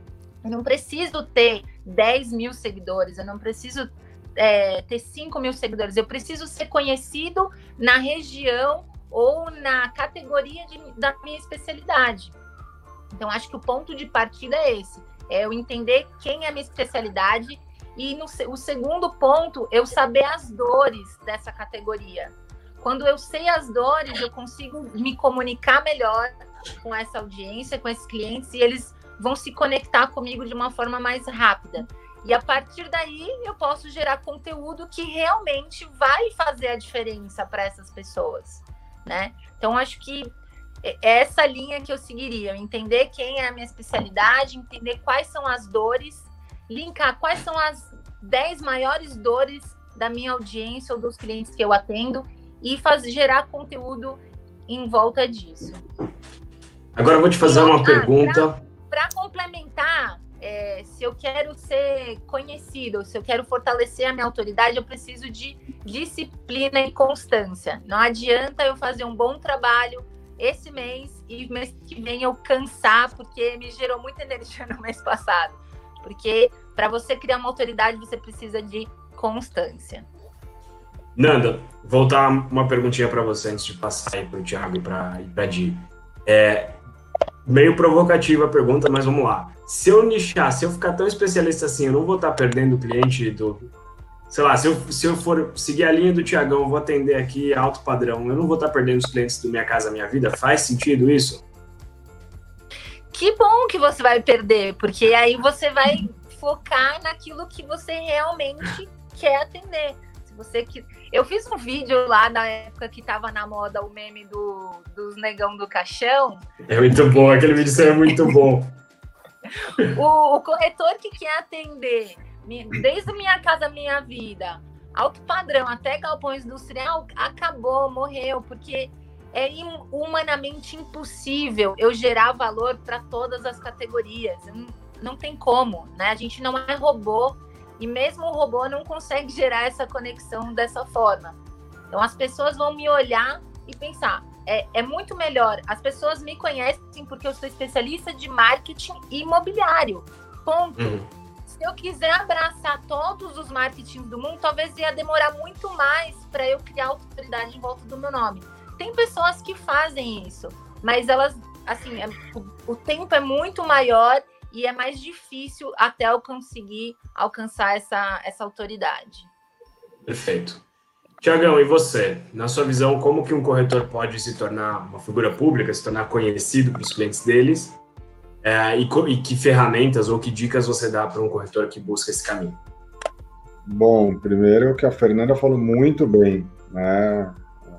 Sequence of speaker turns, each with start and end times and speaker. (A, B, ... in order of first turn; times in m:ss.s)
0:00.4-0:12.3 A
0:13.1-0:26.3 A
0:26.8-0:40.3 A
0:40.8-0:55.8 A
0:57.0-0:58.6 B
0:57.4-1:20.1 A
1:21.2-1:26.8 B
1:27.4-1:33.7 B
1:34.3-1:41.4 B
1:43.1-1:56.4 A
1:56.7-1:58.8 B
1:59.9-2:21.4 A
2:21.9-2:49.3 A
2:30.8-2:31.1 B
2:50.0-2:50.6 B
2:51.2-2:57.8 B
2:58.4-3:02.6 B
3:03.6-3:07.5 C